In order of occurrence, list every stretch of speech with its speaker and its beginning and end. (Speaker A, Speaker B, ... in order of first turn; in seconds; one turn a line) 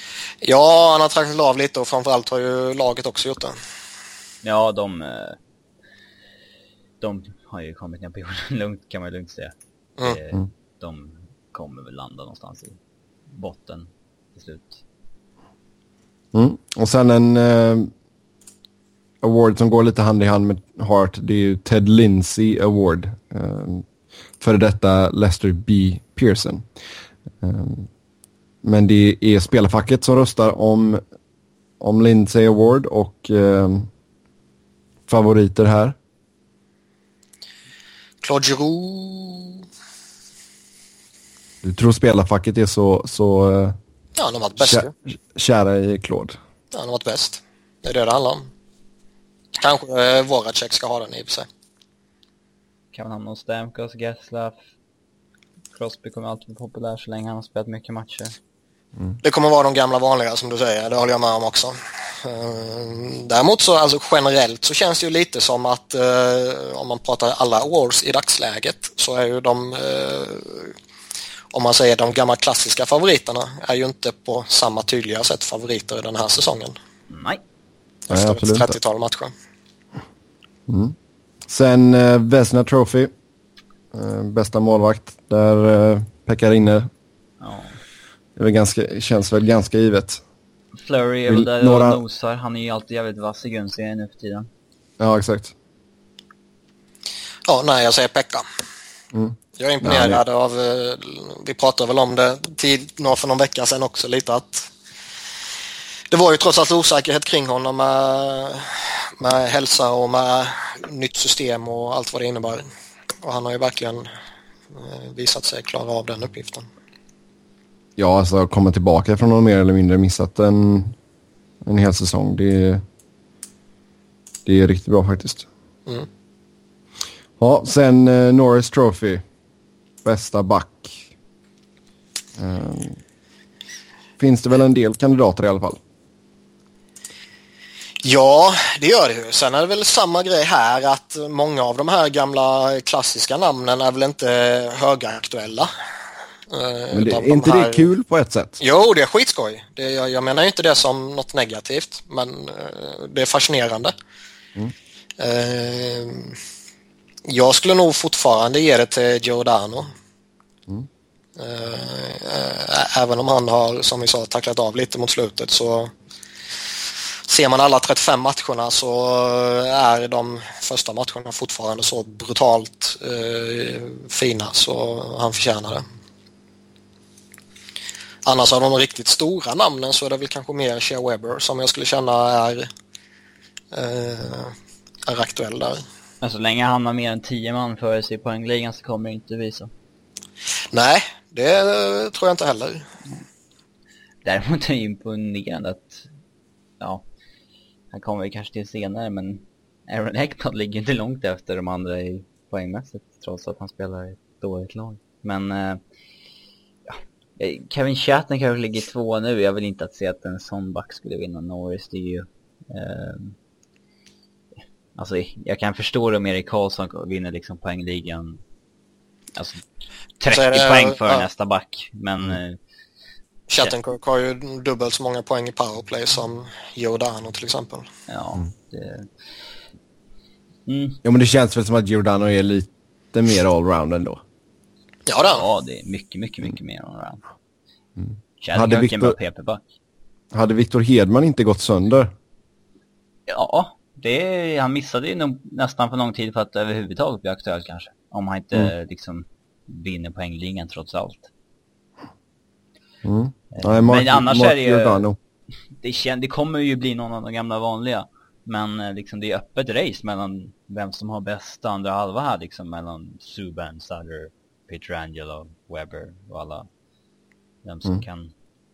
Speaker A: 0.4-3.5
Speaker B: 4.4-5.4
Speaker B: 7.0-12.8
Speaker B: 13.3-14.8
Speaker C: 16.3-17.9
Speaker C: 19.2-23.9
Speaker C: 24.4-26.6
Speaker C: 27.4-27.9
Speaker C: 28.6-31.0
Speaker C: 31.8-33.9
Speaker C: 35.1-36.0
Speaker A: 38.2-39.6
Speaker C: 41.6-43.8
Speaker A: 44.1-44.9
Speaker C: 44.6-46.4
Speaker A: 46.7-48.5
Speaker A: 49.6-51.5
Speaker B: 52.9-54.6
Speaker B: 55.7-58.4
Speaker A: 59.2-70.7
Speaker A: 71.5-76.7
Speaker B: 77.1-77.4
Speaker A: 78.1-79.3
Speaker C: 78.1-78.8
Speaker C: 80.7-80.9
Speaker C: 81.5-83.1
Speaker C: 83.9-86.9
Speaker B: 87.4-87.8
Speaker C: 88.3-90.2
Speaker B: 90.8-94.5
Speaker C: 91.3-92.0
Speaker C: 95.0-95.5
Speaker A: 97.5-98.5
Speaker C: 99.1-100.2
Speaker A: 99.6-104.7
Speaker A: 106.1-112.7
Speaker A: 113.2-114.1
Speaker A: 114.7-116.7
Speaker C: 118.0-120.9
Speaker C: 121.6-122.8
Speaker C: 124.5-125.5
Speaker C: 127.4-129.2
Speaker C: 130.0-131.0
Speaker C: 132.4-133.0
Speaker C: 134.2-135.8
Speaker A: 138.0-145.7
Speaker A: 146.5-147.9
Speaker C: 146.9-148.6
Speaker A: 148.6-153.9
Speaker A: 155.2-156.4
Speaker A: 157.2-159.9
Speaker A: 161.4-165.9
Speaker A: 167.3-175.8
Speaker A: 178.2-182.7
Speaker A: 183.7-184.5
Speaker A: 185.1-185.8
Speaker B: 186.2-189.7
Speaker A: 190.7-192.8
Speaker B: 194.2-196.1
Speaker B: 197.9-205.8
Speaker B: 206.9-213.3
Speaker B: 214.9-218.4
Speaker B: 219.3-219.6
Speaker B: 220.2-222.6
Speaker A: 220.3-221.2
Speaker A: 223.5-227.9
Speaker B: 228.1-229.1
Speaker B: 230.7-231.0
Speaker C: 231.0-234.2
Speaker A: 235.1-235.4
Speaker B: 235.2-237.2
Speaker C: 238.0-239.2
Speaker B: 238.4-239.6
Speaker C: 240.3-242.1
Speaker B: 243.3-251.3
Speaker C: 253.0-255.2
Speaker B: 253.5-255.0
Speaker B: 255.8-266.7
Speaker B: 267.6-268.3